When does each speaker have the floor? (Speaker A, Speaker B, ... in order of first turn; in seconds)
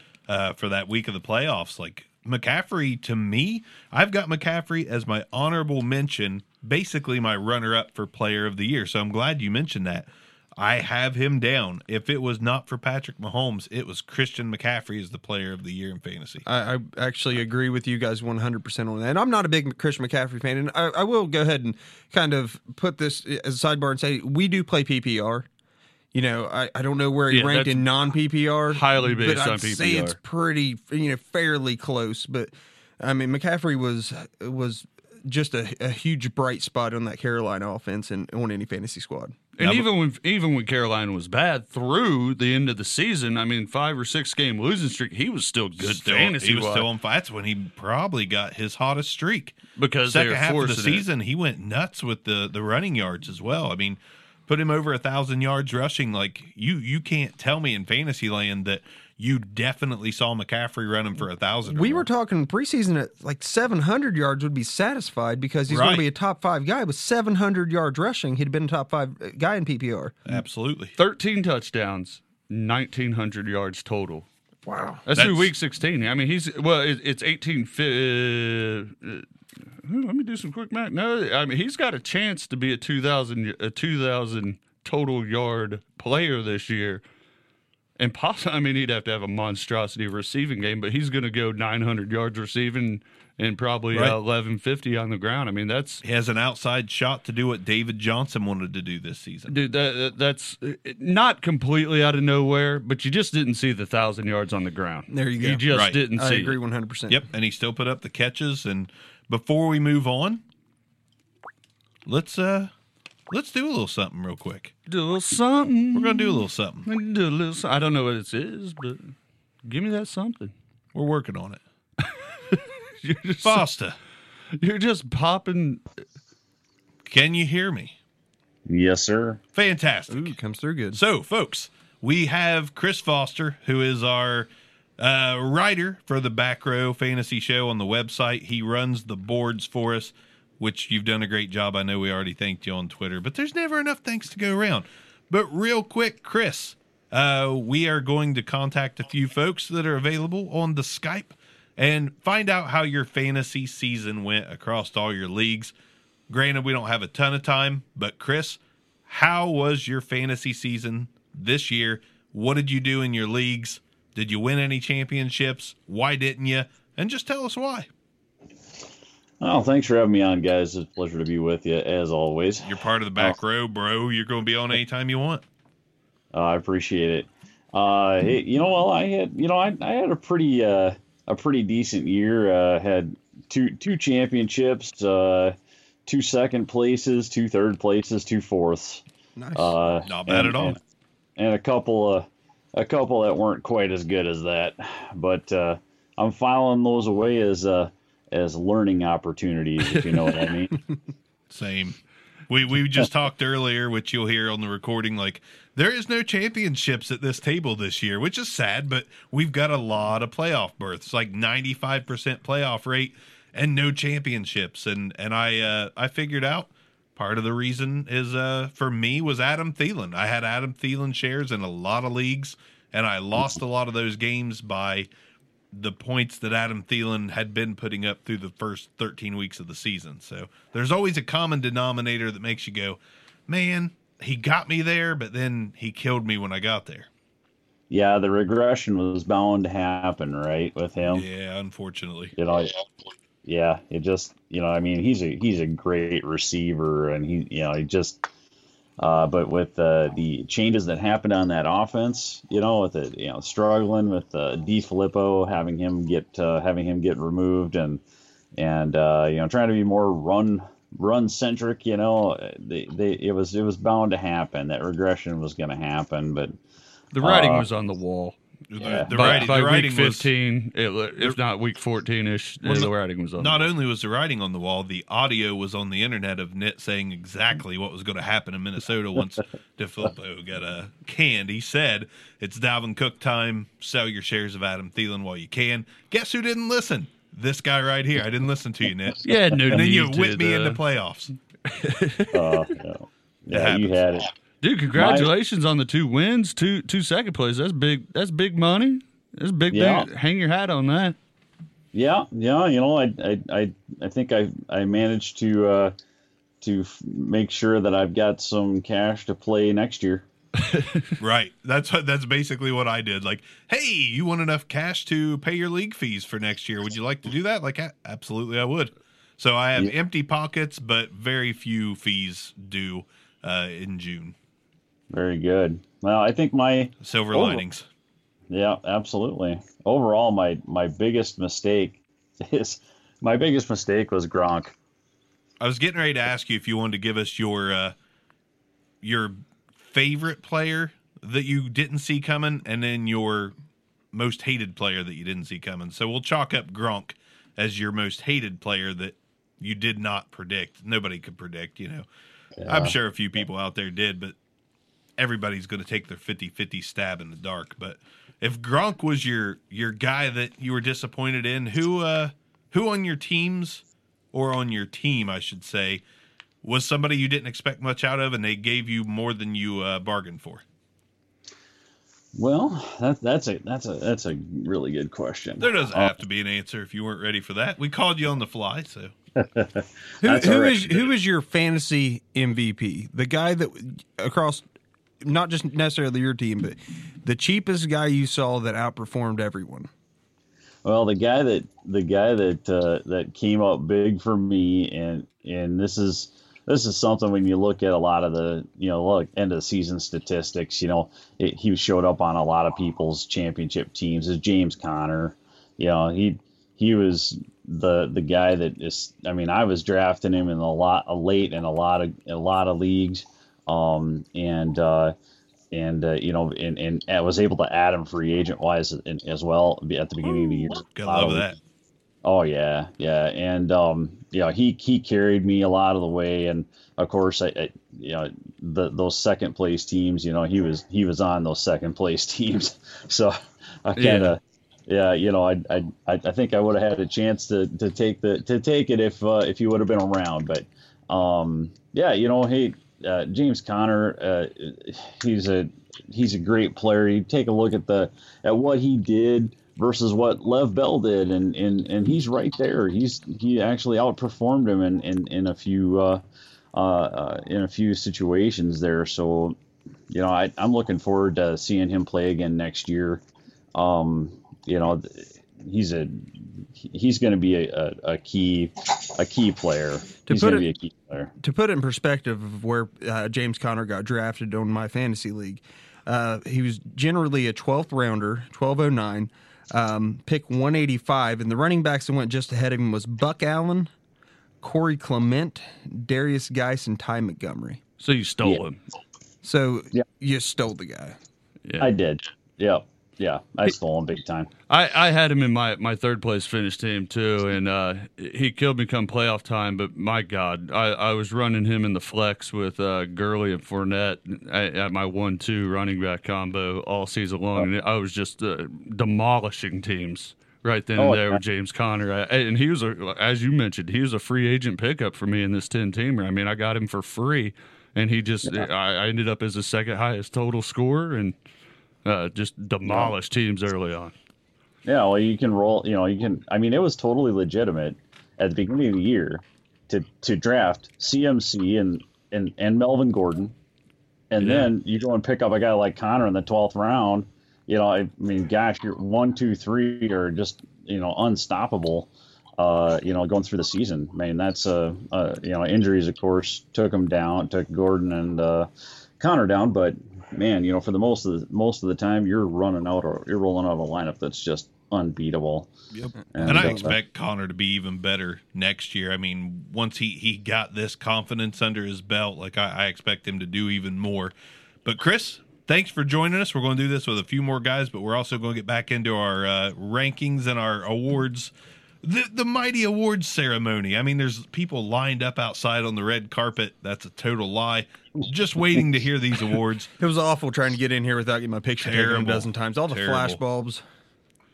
Speaker A: 0.3-16.4, 39.6-39.9, 45.8-62.1, 65.7-66.0, 70.2-70.9, 75.1-75.5, 96.0-99.5, 105.7-106.0, 107.1-110.4, 112.1-112.7, 113.3-114.7, 115.9-116.9, 120.9-121.6, 123.4-124.0, 127.1-128.0, 129.5-130.3, 130.9-134.5, 135.0-155.7, 156.3-167.9, 172.6-175.4, 190.1-190.8, 201.5-202.0, 202.5-225.1, 225.7-237.1, 241.1-242.3, 268.7-270.3, 272.6-291.3, 293.5-294.0, 311.2-324.4, 327.0-327.9, 335.6-337.9, 339.0-343.5, 344.1-352.1, 352.6-354.4, 355.2-366.0, 366.6-370.6, 375.6-379.1, 420.2-421.6, 555.9-564.3, 564.9-571.5, 572.0-579.9, 581.8-583.4
Speaker B: 16.4-25.5, 26.1-39.5, 61.7-70.2, 74.7-75.1, 105.1-107.2, 130.1-131.0, 189.4-189.8, 380.2-384.6, 385.2-389.9, 470.2-470.7, 471.4-483.9, 484.6-487.8, 489.4-491.2, 556.3-556.9, 580.0-583.8
Speaker C: 27.3-27.9, 28.7-30.2, 39.6-46.9, 49.8-51.0, 71.0-74.2, 75.1-79.2, 79.8-87.0, 88.0-96.0, 99.5-106.6, 114.9-119.1, 119.7-120.5, 122.0-123.7, 124.6-125.8, 267.1-268.4, 269.1-273.7, 289.2-290.8, 291.6-292.6, 294.6-301.2, 310.6-311.1, 433.9-434.4, 488.0-488.8, 494.7-521.4, 522.0-524.1, 534.4-534.7
Speaker D: 128.7-129.4, 169.4-173.3, 176.3-185.6, 186.1-189.0, 189.6-190.8, 191.4-200.8, 237.9-241.2, 242.4-242.7, 243.4-248.2, 249.0-258.0, 258.6-266.6, 267.2-267.6, 268.8-269.5, 289.5-289.8, 292.3-294.3, 294.9-295.3, 299.7-300.1, 301.9-305.9, 306.6-310.2, 325.1-327.6, 328.5-334.7, 352.6-352.9, 372.4-376.2, 379.4-381.0, 390.9-415.1, 415.7-421.5, 422.2-456.2, 456.7-459.6, 460.1-463.2, 463.7-471.3, 491.8-494.5, 511.0-511.4, 522.9-523.1, 524.9-533.5, 534.3-555.7, 556.3-557.0